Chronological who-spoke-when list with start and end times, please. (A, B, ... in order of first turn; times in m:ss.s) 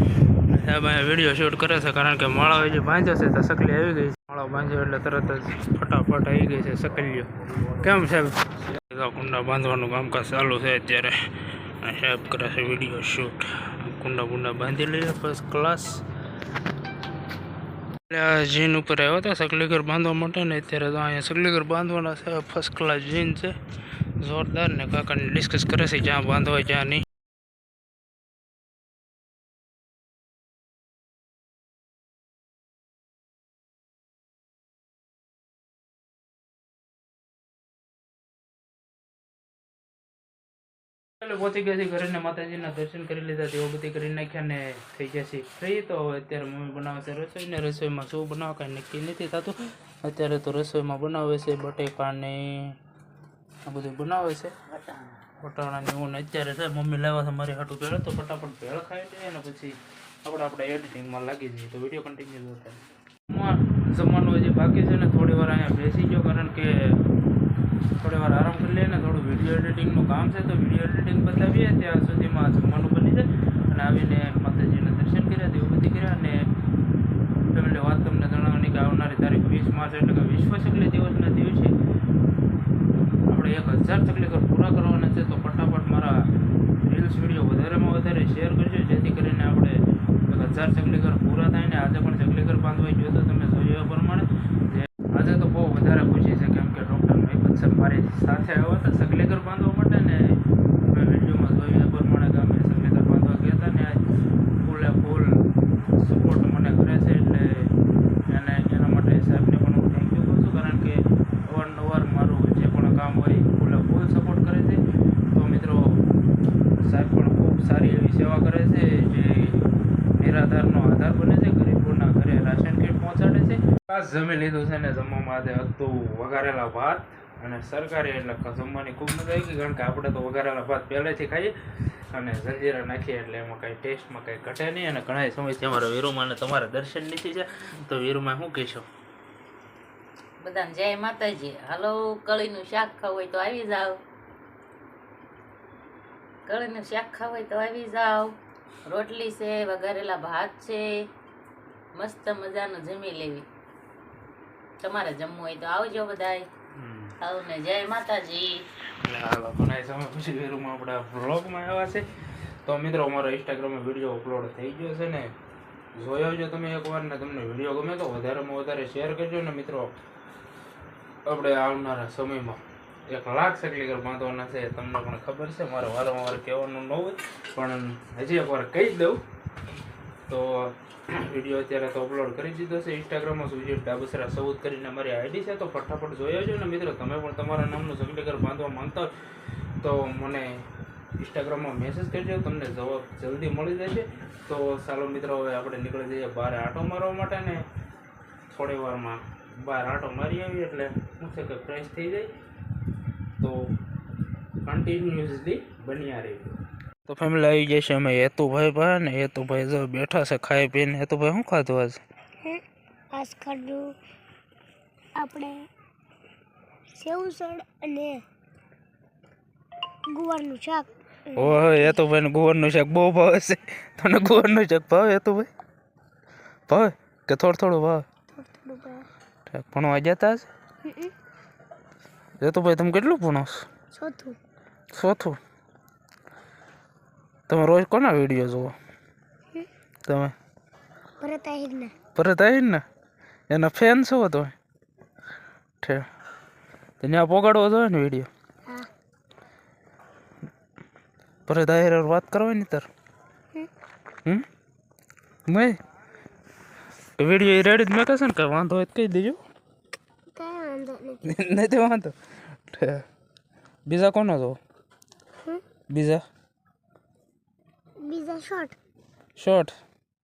0:00.4-0:16.0 A
0:18.1-0:23.6 A
0:24.2-0:27.1 A
0:41.2-0:52.8 A
0:53.6-0:54.6 A
0:55.4-1:07.0 A
1:08.0-1:16.5 A
1:17.5-1:21.8 A
1:23.3-1:26.3 A
1:26.8-1:44.0 A
1:44.6-1:47.7 A
1:48.3-1:56.0 A
1:56.8-1:59.6 A
2:00.2-2:18.9 A
2:20.4-2:24.0 B
2:26.5-2:28.4 B
2:28.9-2:30.9 B
2:32.0-2:33.5 B
2:34.8-2:36.5 B
2:36.7-2:37.2 A
2:37.2-2:38.6 B
2:39.0-2:42.1 A
2:42.6-2:45.3 A
2:46.0-2:49.9 A
2:51.2-2:59.2 A
3:00.3-3:09.1 A
3:09.8-3:10.7 A
3:11.2-3:17.7 A
3:18.5-3:22.3 A
3:23.4-3:23.7 A
3:24.6-3:32.0 A
3:33.1-3:33.9 C
3:35.2-3:35.7 C
3:37.0-3:38.2 C
3:40.1-3:42.0 C
3:41.4-3:45.5 A
3:46.7-3:48.0 A
3:48.3-3:49.1 C
3:49.5-3:50.5 A
3:50.8-3:51.1 C
3:52.4-3:53.6 A
3:53.9-3:54.4 C
3:54.9-3:55.4 A
3:57.5-3:58.8 A
4:00.1-4:00.3 A
4:01.2-4:01.9 C
4:02.2-4:02.8 A
4:03.5-4:04.5 A
4:05.8-4:06.1 A
4:07.0-4:08.3 A
4:11.5-4:12.9 A
4:15.5-4:15.8 A
4:17.2-4:19.4 A
4:20.3-4:21.2 C
4:21.2-4:22.1 A
4:22.7-4:23.0 A
4:23.9-4:24.6 A
4:25.9-4:26.2 A
4:28.0-4:28.8 C
4:29.4-4:29.8 A